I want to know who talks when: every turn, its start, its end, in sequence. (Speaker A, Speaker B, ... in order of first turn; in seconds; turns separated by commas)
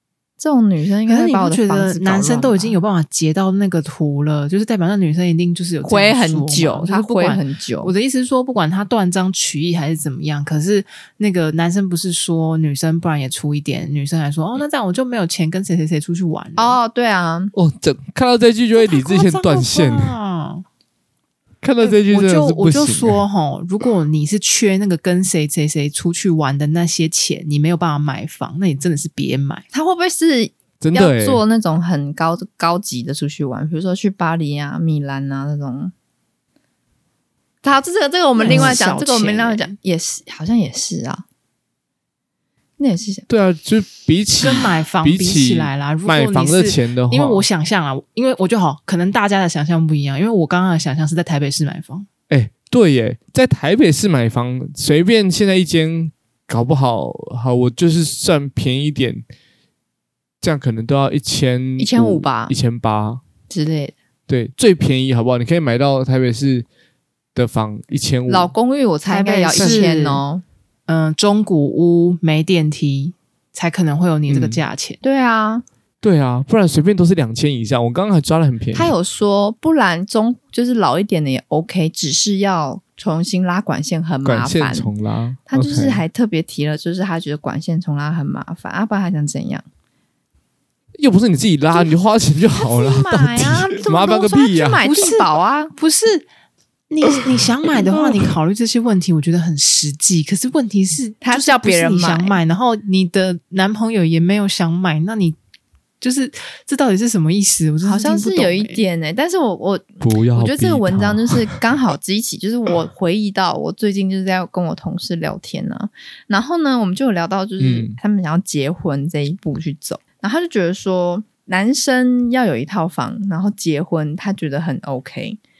Speaker A: 0.4-2.8, Speaker B: 1.1-16.8, Speaker A: 5.8-7.9, Speaker A: 16.6-17.5, Speaker C: 17.5-20.1, Speaker B: 18.8-20.6, Speaker C: 21.6-23.2, Speaker B: 21.8-29.6, Speaker A: 29.7-35.9, Speaker C: 30.8-31.4, Speaker A: 37.6-41.2, Speaker B: 38.4-39.7, Speaker C: 38.5-38.8, Speaker A: 42.8-43.2, Speaker C: 43.3-47.4, Speaker B: 44.4-52.1, Speaker C: 52.3-59.2, Speaker C: 60.4-63.2, Speaker A: 61.8-62.5, Speaker A: 63.5-63.9, Speaker C: 64.3-66.7, Speaker C: 67.3-68.5, Speaker A: 68.3-70.4, Speaker B: 69.1-70.2, Speaker C: 69.5-69.9, Speaker B: 70.9-75.0, Speaker C: 74.3-74.6, Speaker A: 75.0-75.6, Speaker C: 76.0-78.9, Speaker A: 78.7-84.9, Speaker C: 84.2-86.0, Speaker A: 85.5-89.6, Speaker C: 91.0-94.8, Speaker A: 92.6-95.7, Speaker B: 94.8-96.2, Speaker B: 96.9-105.4, Speaker A: 101.2-102.4, Speaker B: 106.0-108.8, Speaker A: 107.8-125.4, Speaker C: 110.0-111.5, Speaker C: 117.6-118.0